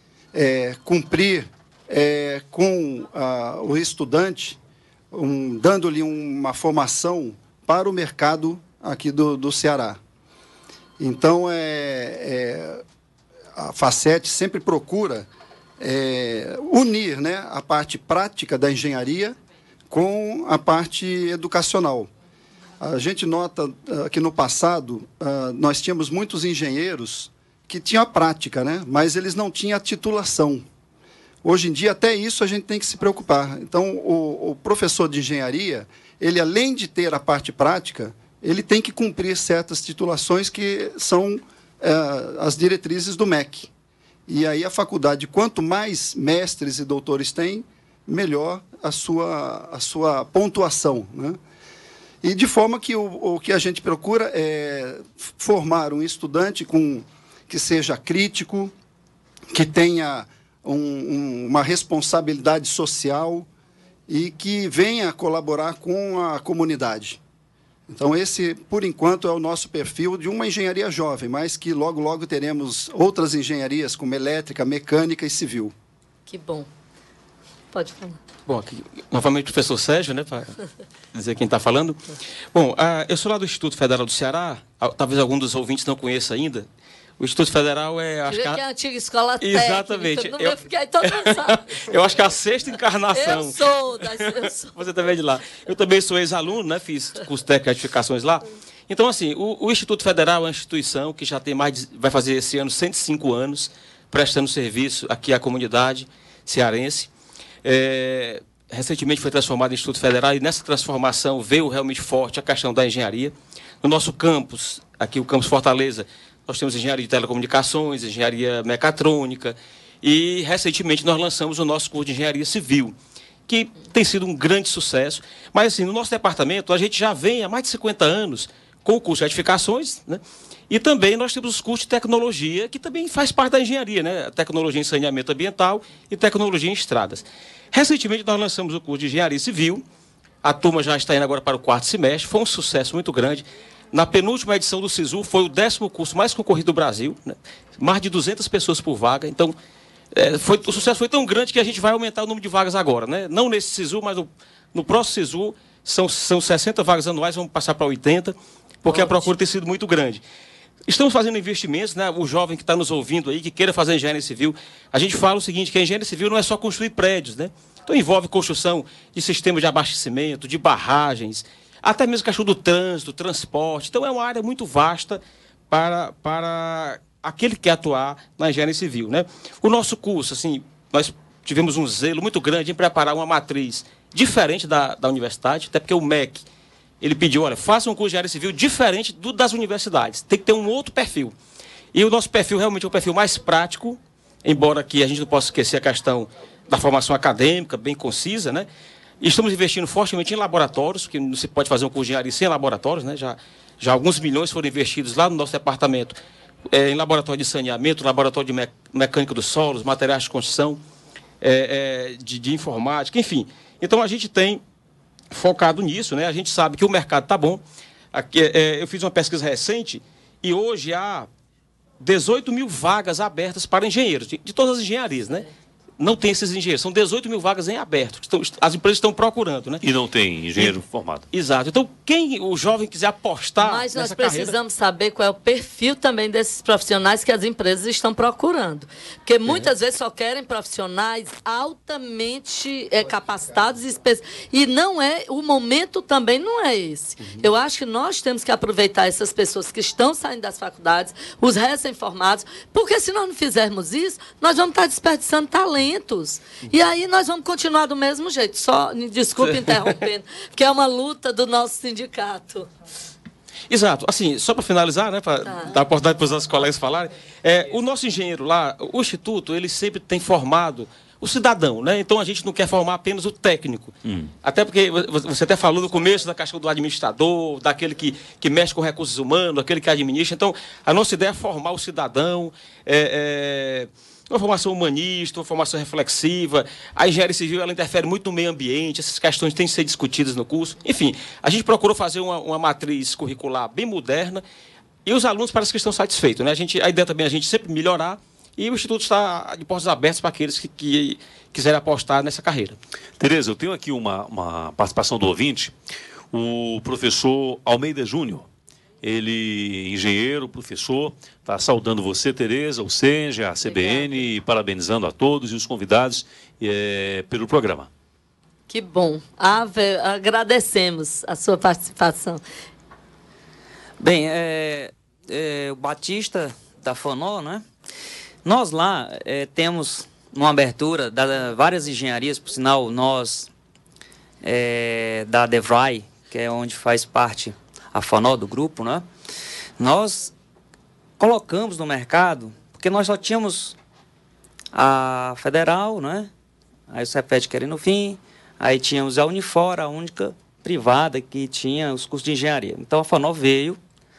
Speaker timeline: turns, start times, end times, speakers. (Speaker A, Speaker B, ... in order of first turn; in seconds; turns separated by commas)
Speaker A: 0.3-4.6, Speaker A: 5.1-10.0, Speaker A: 11.0-12.8, Speaker A: 13.6-15.3, Speaker A: 15.8-19.4, Speaker A: 19.9-22.1, Speaker A: 22.8-30.6, Speaker A: 31.4-43.7, Speaker A: 44.3-51.4, Speaker A: 52.2-58.7, Speaker A: 59.5-63.5, Speaker A: 64.1-67.2, Speaker A: 67.9-75.7, Speaker B: 76.3-76.7, Speaker B: 77.7-78.2, Speaker C: 78.5-80.6, Speaker C: 81.1-86.7, Speaker C: 87.2-88.6, Speaker B: 88.3-91.8, Speaker C: 89.4-107.1, Speaker B: 93.1-94.8, Speaker C: 107.6-123.0, Speaker C: 123.5-139.8, Speaker C: 140.4-149.6, Speaker C: 150.1-160.2, Speaker B: 158.9-159.2, Speaker C: 160.9-186.4, Speaker C: 187.0-191.3, Speaker C: 191.9-198.7, Speaker C: 199.2-206.2, Speaker C: 206.7-210.8, Speaker C: 211.4-214.6, Speaker C: 215.3-217.6, Speaker C: 218.1-221.3, Speaker C: 222.0-225.5, Speaker C: 226.0-229.8, Speaker D: 229.8-231.2, Speaker C: 231.3-234.5, Speaker B: 233.6-262.7, Speaker C: 259.5-259.9, Speaker C: 263.7-294.4, Speaker B: 265.4-265.7, Speaker D: 274.1-274.3, Speaker C: 295.1-302.8, Speaker D: 303.2-305.7, Speaker D: 306.3-308.5, Speaker D: 309.0-317.9, Speaker B: 313.6-314.2, Speaker B: 318.7-322.4, Speaker E: 324.0-327.6, Speaker E: 328.4-333.5, Speaker E: 334.4-339.1, Speaker E: 339.8-340.3, Speaker E: 341.2-343.8, Speaker E: 344.7-346.3, Speaker E: 346.9-353.8